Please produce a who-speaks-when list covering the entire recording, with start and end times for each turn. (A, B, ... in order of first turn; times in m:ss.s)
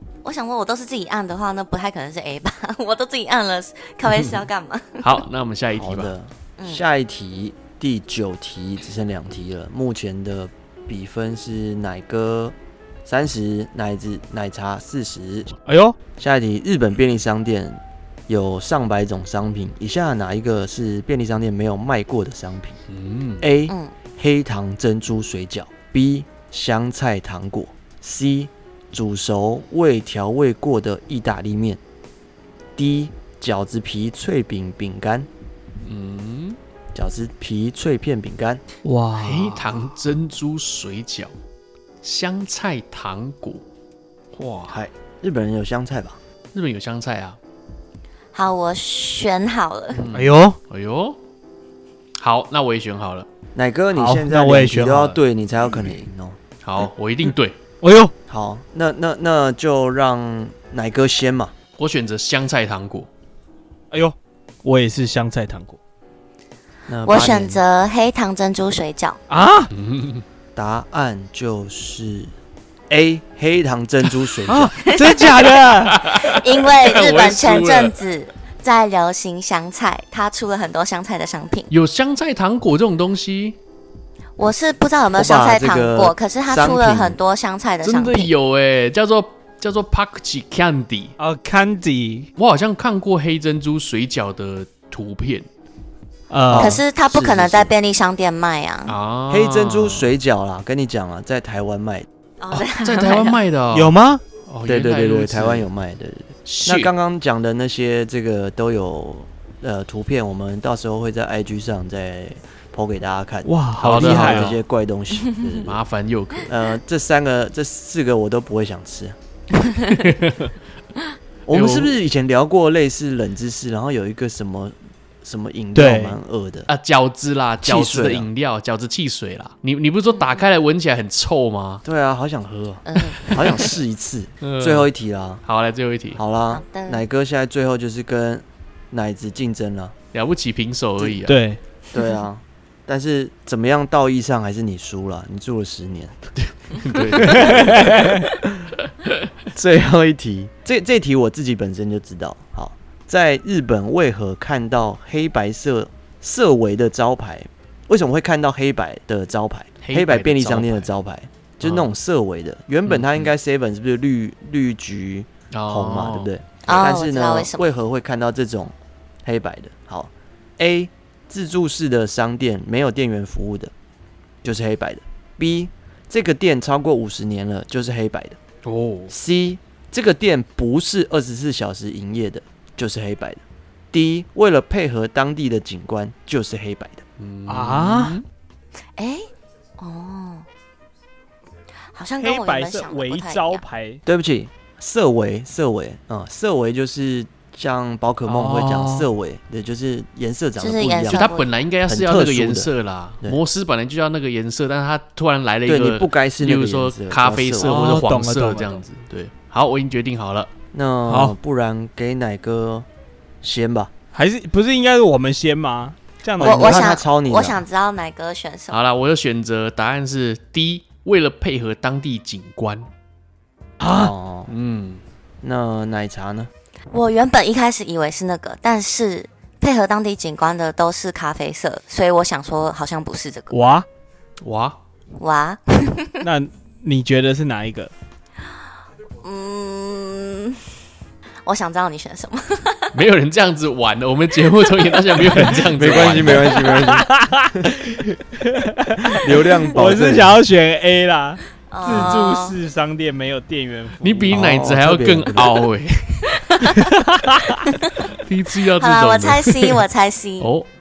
0:00.2-0:05.2 A
0:04.1-0:04.4 B
0:05.0-0:06.1 B
0:05.8-0:15.5 C
0:15.7-0:16.0 D
0:16.2-0:22.8 C
0:22.9-0:23.5 B
0:23.4-0:31.8 C
0:23.7-0:23.9 A
0:32.8-0:35.3 C
0:35.8-0:36.6 B
0:36.9-0:38.6 C
0:38.8-0:39.7 D
0:39.2-0:41.3 B
0:42.0-0:43.6 B
0:44.3-0:44.8 B
0:44.7-0:46.2 C
0:46.5-0:47.4 B
0:48.3-0:50.0 A
0:49.9-0:51.2 B
0:50.1-0:50.6 D
0:52.2-0:53.3 B
0:53.6-0:56.4 C
0:54.0-0:55.2 D
0:56.6-0:57.6 B
0:57.8-0:58.1 D
0:58.3-1:01.5 C
1:01.8-1:03.1 B
1:03.9-1:05.8 D
1:06.9-1:07.6 C
1:07.0-1:09.2 A
1:09.3-1:09.7 D
1:09.7-1:10.2 B
1:10.6-1:12.3 C
1:12.9-1:14.8 C
1:14.4-1:16.0 D
1:14.8-1:15.5 A
1:15.8-1:18.0 B
1:16.1-1:21.7 A
1:21.7-1:23.6 B
1:24.4-1:28.3 A
1:25.1-1:27.2 C
1:27.8-1:31.1 B
1:31.2-1:32.3 D
1:32.4-1:35.5 B
1:36.3-1:36.8 D
1:36.5-1:37.7 C
1:36.6-1:39.0 A
1:38.9-1:40.1 B
1:39.3-1:42.1 C
1:42.4-1:43.4 A
1:42.5-1:45.7 B
1:43.7-1:44.2 D
1:44.6-1:55.8 C
1:46.4-1:46.9 B
1:53.4-1:54.6 D
1:53.8-1:54.6 B
1:55.6-1:56.5 B
1:56.5-1:59.2 C
1:59.6-2:00.0 A
1:59.9-2:00.6 B
2:01.5-2:06.7 C
2:01.5-2:02.0 B
2:05.8-2:06.2 D
2:06.7-2:11.8 B
2:07.6-2:08.3 C
2:10.1-2:10.4 A
2:11.8-2:15.4 C
2:12.9-2:13.3 A
2:13.2-2:13.7 B
2:14.4-2:14.9 B
2:15.4-2:16.2 B
2:16.2-2:19.9 C
2:16.5-2:17.0 A
2:20.1-2:21.4 B
2:21.3-2:21.6 D
2:21.9-2:26.3 C
2:26.4-2:28.3 B
2:27.2-2:28.0 C
2:27.2-2:28.3 D
2:28.8-2:29.3 B
2:29.6-2:48.7 C
2:39.8-2:40.9 B
2:41.6-2:41.9 B
2:42.9-2:43.3 B
2:45.5-2:46.3 B
2:46.7-2:47.7 A
2:49.2-2:53.7 C
2:54.4-2:58.4 C
2:58.6-2:59.1 B
2:59.1-3:07.0 C
3:07.2-3:08.2 B
3:07.5-3:08.2 D
3:09.0-3:09.3 A
3:09.8-3:10.4 A
3:12.0-3:13.6 A
3:12.2-3:14.0 D
3:14.1-3:21.3 C
3:18.3-3:19.1 D
3:20.6-3:21.5 A
3:21.1-3:30.5 B
3:21.9-3:22.7 C
3:25.6-3:28.0 C
3:27.6-3:28.8 D
3:30.7-3:32.9 C
3:31.1-3:31.4 D
3:33.4-3:33.9 C
3:34.1-3:36.9 D
3:36.4-3:38.8 A
3:36.4-3:37.6 C
3:38.7-3:42.9 B
3:43.8-3:44.1 D
3:43.8-3:44.5 C
3:44.5-3:45.0 B
3:45.4-3:46.5 C
3:46.9-3:53.6 A
3:53.5-3:53.9 D
3:54.4-3:54.8 B
3:55.2-3:56.3 A
3:56.2-3:57.9 D
3:59.2-4:00.8 A
4:01.4-4:03.0 A
4:02.9-4:06.7 B
4:05.6-4:07.9 C
4:06.3-4:14.4 D
4:09.1-4:10.4 C
4:11.7-4:12.6 A
4:14.0-4:16.5 B
4:14.3-4:15.6 C
4:16.3-4:17.0 A
4:16.7-4:17.7 D
4:17.7-4:18.1 A
4:18.0-4:19.8 B
4:18.6-4:20.5 A
4:20.4-4:20.7 B